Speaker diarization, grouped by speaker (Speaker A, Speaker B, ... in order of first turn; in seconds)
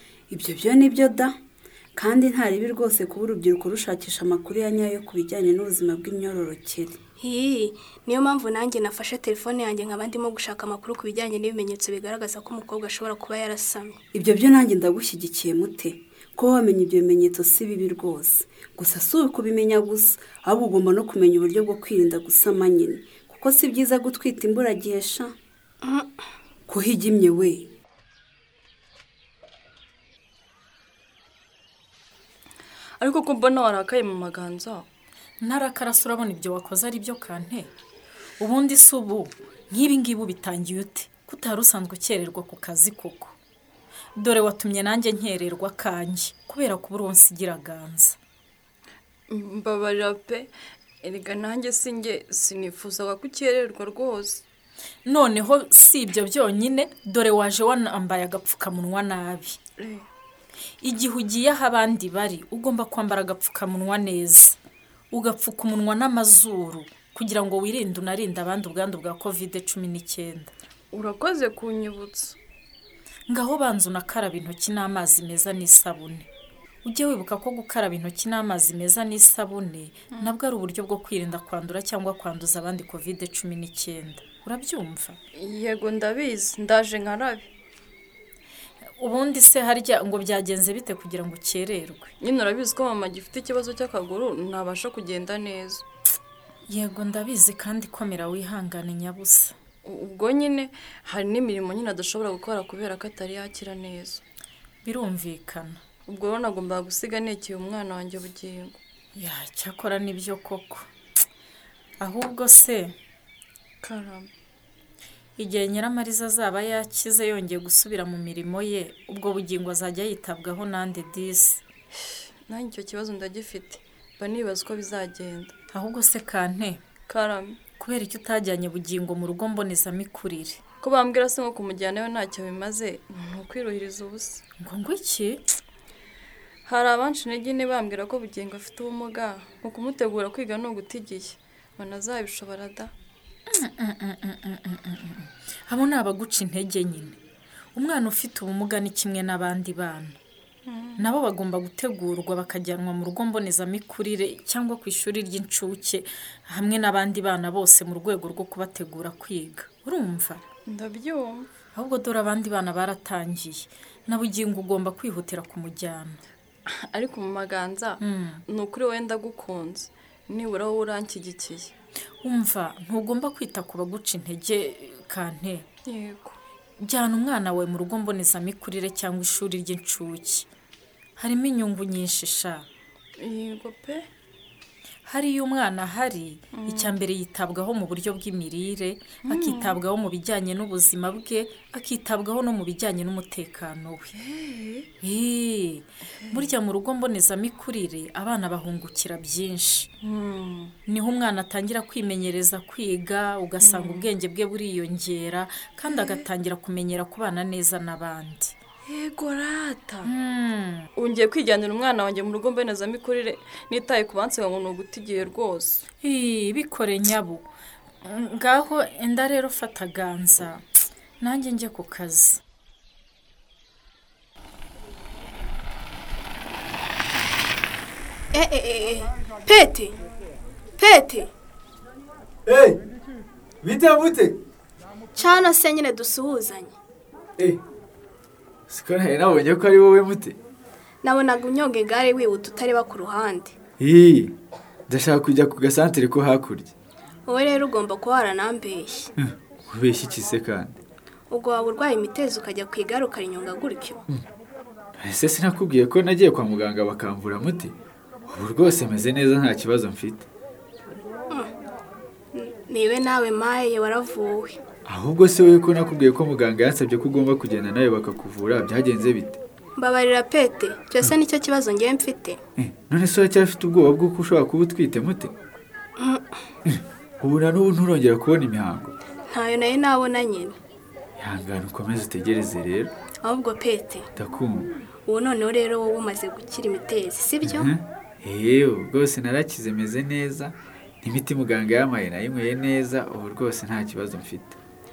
Speaker A: 0.3-1.3, 1.9-7.0, 14.1-25.3, 26.7-27.7
Speaker B: 7.2-14.0, 25.8-26.1, 228.3-229.9, 230.8-231.3, 235.2-236.7, 241.0-243.5, 247.3-249.1, 251.3-254.0, 262.3-264.6, 269.8-272.4, 279.3-280.6, 283.2-284.1, 285.1-287.7
Speaker C: 33.0-34.9, 49.3-50.5, 51.0-54.4, 59.8-60.0, 70.9-72.4, 85.4-87.5, 92.2-95.8, 99.8-104.2, 106.1-108.8, 113.8-114.3, 122.0-125.5, 127.1-127.6, 130.8-134.4, 136.7-142.9, 150.7-151.1, 160.7-161.5, 166.7-171.7, 175.8-176.3, 183.2-184.0, 186.5-186.9, 189.3-189.8, 194.2-194.9, 200.0-200.7, 203.6-204.1, 205.9-206.2, 208.9-210.1, 211.0-215.8
Speaker D: 35.4-37.7, 38.4-43.3, 44.1-48.2, 55.0-59.6, 60.8-64.6, 65.1-70.5, 73.3-76.3, 76.8-85.2, 89.0-92.1, 96.7-99.5, 104.8-105.8, 109.1-110.9, 112.0-112.9, 115.4-121.6, 125.7-126.8, 127.8-130.6, 134.6-135.4, 143.5-147.1, 147.7-150.2, 151.0-160.4, 161.7-166.2, 168.0-168.4, 172.2-175.7, 176.8-180.5, 181.2-182.7, 185.0-194.1, 195.0-199.9, 200.9-208.6, 210.0-210.9, 216.0-217.4, 218.0-220.6, 221.2-222.4
Speaker E: 232.5-232.7, 233.6-234.3, 238.7-240.3, 243.8-244.3, 244.9-246.7, 249.7-250.8, 255.0-257.7, 258.3-260.2, 264.8-269.4, 272.6-275.3, 277.2-278.9, 281.2-282.9, 284.1-284.7, 287.7-294.6